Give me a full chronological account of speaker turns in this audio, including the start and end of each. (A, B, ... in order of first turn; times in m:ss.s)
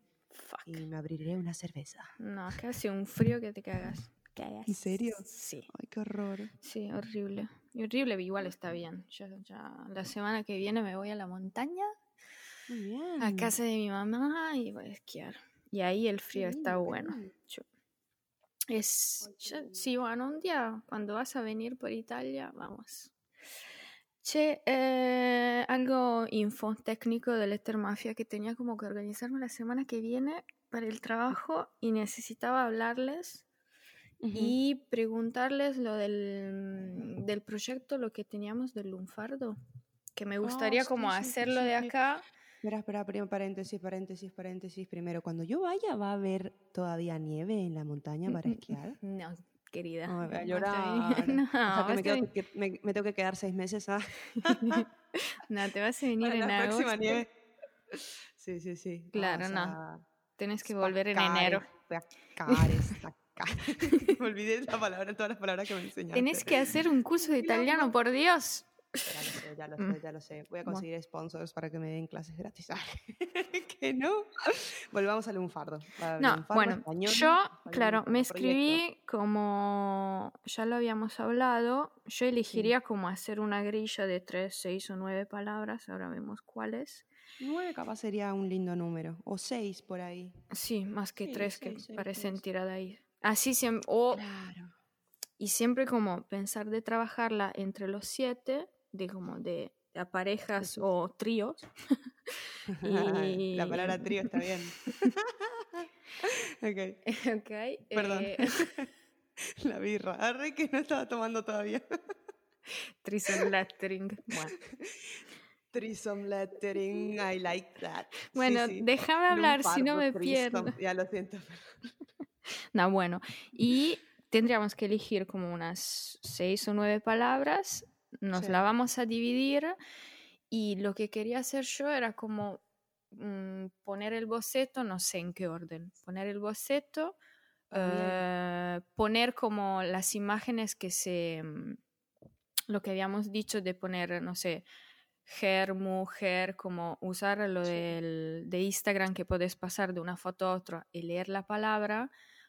0:00.3-0:00.8 A
0:00.6-0:02.1 B
0:02.2-0:05.7 A
0:04.7-0:06.5 B
0:06.6-0:11.9 A
0:12.7-0:13.5 B
0:13.2-0:17.6 A
0:16.3-0:17.3 B
0:18.7-0:23.1 A
0:19.2-0:19.8 B
0:24.2-0:33.4 A
0:34.2-0:34.6 B
0:34.3-0:39.6 A
0:40.2-0:42.2 A
0:40.4-0:42.0 B
0:42.6-0:49.0 B
0:49.0-0:52.3 A
0:50.0-0:54.9 B
0:54.4-0:57.2 A
0:56.2-0:57.3 B
0:57.9-1:00.0 B
0:59.1-0:59.8 A
1:00.4-1:01.7 A
1:00.6-1:07.9 B
1:02.5-1:02.8 A
1:06.1-1:09.2 A
1:09.1-1:18.8 B
1:16.2-1:27.0 A
1:27.4-1:30.4 B
1:30.5-1:34.2 A
1:31.2-1:32.4 B
1:34.1-1:34.7 B
1:35.4-1:41.7 A
1:40.6-1:40.9 B
1:42.7-1:47.0 B
1:42.8-1:44.3 A
1:47.0-1:48.6 A
1:47.9-1:48.9 B
1:49.6-1:51.8 B
1:53.0-1:54.5 A
1:54.4-1:55.1 B
1:55.7-2:01.7 B
1:58.3-2:00.7 A
2:02.7-2:09.8 A
2:08.3-2:08.6 B
2:10.5-2:12.6 A
2:13.1-2:17.2 A
2:17.7-2:18.2 B
2:17.7-2:21.8 A
2:22.7-2:24.6 A
2:25.2-2:32.1 A
2:27.6-2:27.9 B